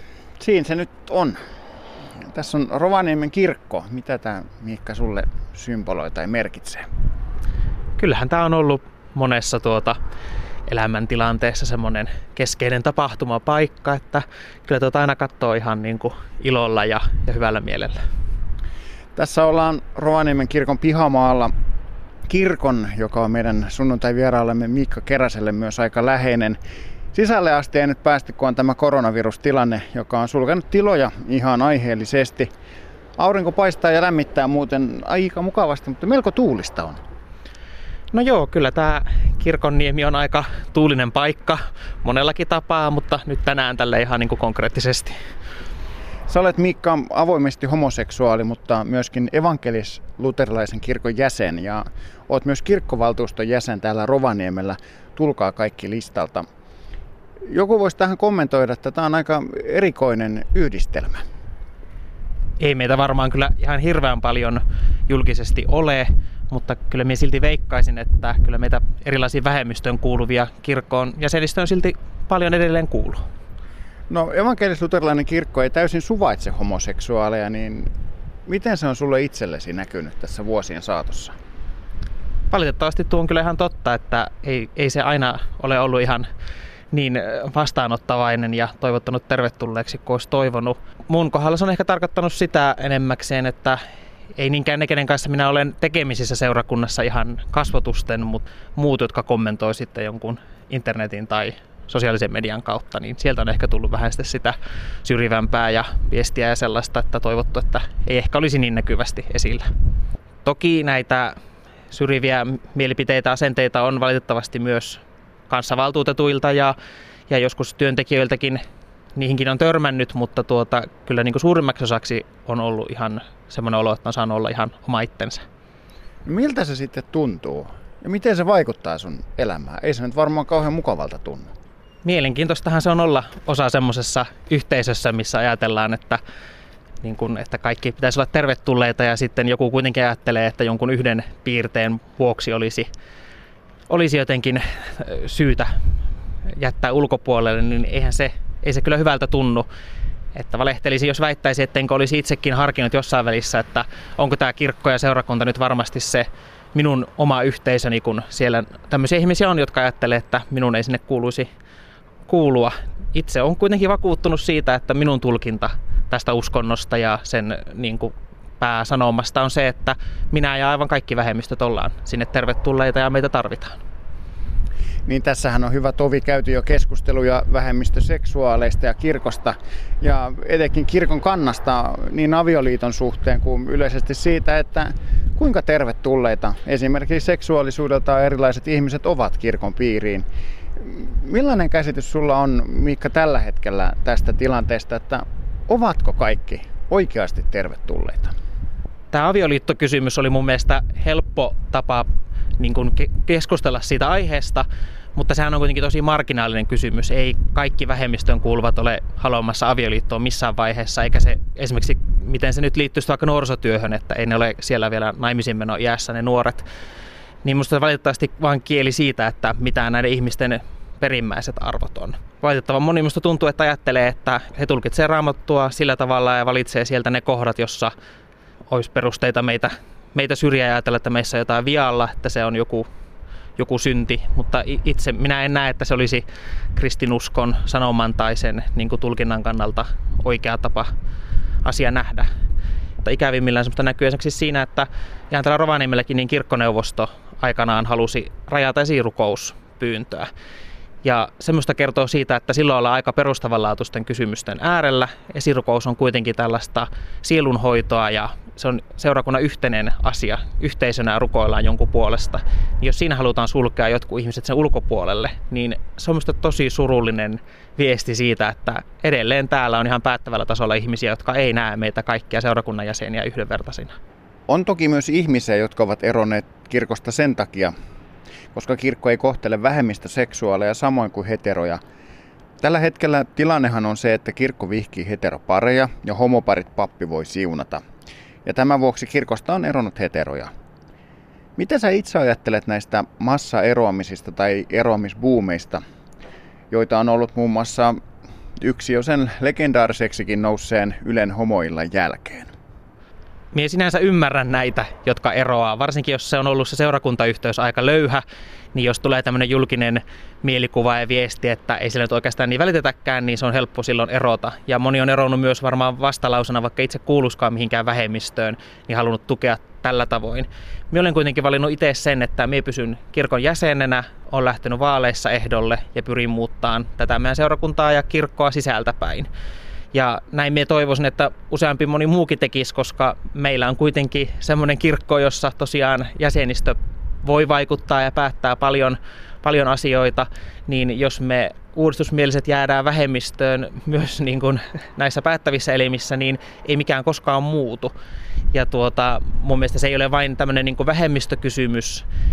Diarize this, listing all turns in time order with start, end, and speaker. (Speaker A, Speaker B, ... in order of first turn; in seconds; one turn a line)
Speaker A: 0.4-1.4
Speaker A: 2.3-6.9
Speaker B: 8.0-10.0
Speaker B: 10.7-18.0
Speaker A: 19.1-21.5
Speaker A: 22.3-26.6
Speaker A: 27.1-32.5
Speaker A: 33.2-37.0
Speaker B: 38.1-45.1
Speaker A: 46.3-56.5
Speaker A: 57.5-61.2
Speaker B: 62.6-73.2
Speaker A: 74.1-77.9
Speaker A: 78.5-81.3
Speaker B: 82.5-86.3
Speaker B: 86.9-93.8
Speaker B: 94.3-109.7
Speaker B: 110.4-111.3
Speaker B: 111.9-116.7
Speaker B: 117.3-118.6
Speaker B: 119.2-125.4
Speaker A: 126.2-131.5
Speaker B: 132.0-136.2
Speaker B: 137.0-142.9
Speaker B: 143.9-145.7
Speaker B: 146.5-149.7
Speaker B: 150.3-161.5
Speaker B: 162.3-173.8
Speaker A: 175.1-190.2
Speaker A: 190.8-198.3
Speaker B: 199.1-216.6
Speaker B: 217.4-227.9
Speaker B: 228.7-232.9
Speaker B: 233.6-240.9
Speaker B: 241.6-242.3
Speaker B: 243.0-250.3
Speaker B: 251.0-273.9
Speaker A: 274.5-277.7
Speaker A: 278.5-281.8
Speaker A: 282.6-287.8
Speaker A: 288.4-290.5
Speaker A: 291.6-295.8
Speaker A: 296.7-298.0
Speaker A: 298.6-302.5
Speaker B: 303.5-308.2
Speaker B: 308.7-329.3
Speaker B: 329.9-347.9
Speaker B: 348.5-352.1